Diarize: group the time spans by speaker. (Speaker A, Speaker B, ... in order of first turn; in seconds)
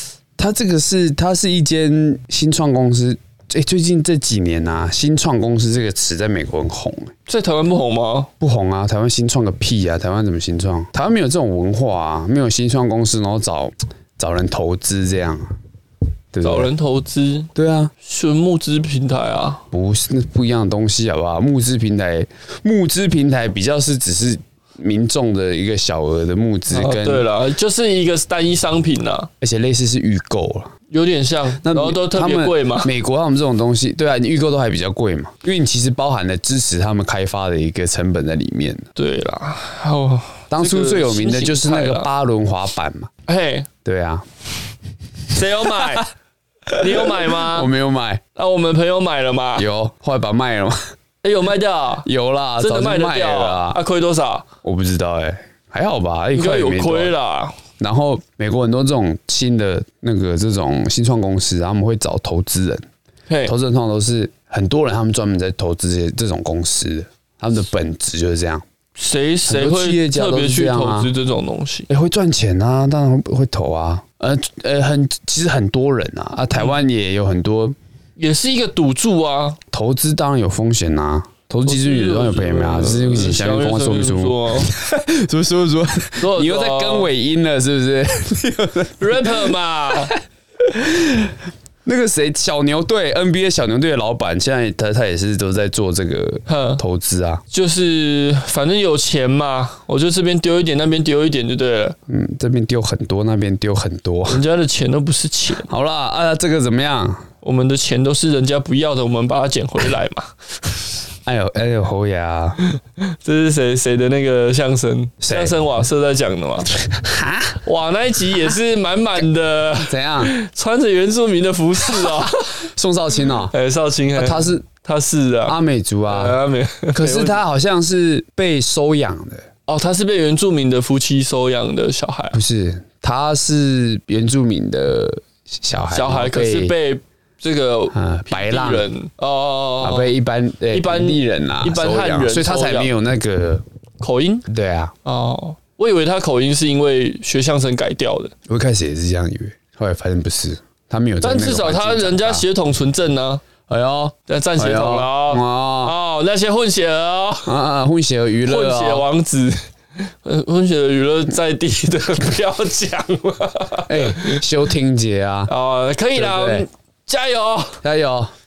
Speaker A: 0.4-7.1, 8.4-15.5, 16.3-16.7, 17.6-17.9, 19.7-27.3, 29.4-30.7, 31.6-38.9, 40.5-43.1, 43.9-44.3, 45.7-46.0, 46.7-48.2, 49.6-50.8, 52.0-53.8, 54.6-57.1, 57.8-62.9, 63.5-68.6, 69.5-71.1, 71.9-77.8, 79.7-97.4, 102.1-104.4, 105.7-107.2, 111.3-112.6, 115.2-115.6, 116.8-117.6, 119.8-120.3, 121.9-123.5, 124.2-124.7, 125.5-126.4, 126.9-129.5, 132.3-136.7, 137.9-138.9, 139.8-143.6, 144.5-144.9, 148.5-152.5, 153.7-155.9, 157.5-159.1, 163.9-165.5, 166.2-166.7, 167.8-168.3
Speaker B: 7.3-8.3, 16.4-17.5, 18.0-19.6, 26.7-29.3, 30.9-32.9, 39.0-42.1, 43.3-43.7, 45.3-46.1, 46.7-47.7, 48.4-49.7, 51.2-52.1, 52.6-54.5, 56.4-57.6, 63.3-63.5, 69.0-71.9, 78.2-79.6, 81.7-84.7, 86.2-87.1, 89.0-90.2, 96.5-96.8, 97.5-102.0, 104.3-105.7, 107.4-110.3, 113.0-116.7, 117.6-122.7, 123.5-125.6, 126.1-127.4, 129.7-132.4, 135.9-140.1, 140.7-142.9, 144.0-144.5, 145.1-148.3, 151.2-153.4, 154.3-157.5, 158.4-159.6, 160.1-164.4, 165.5-167.8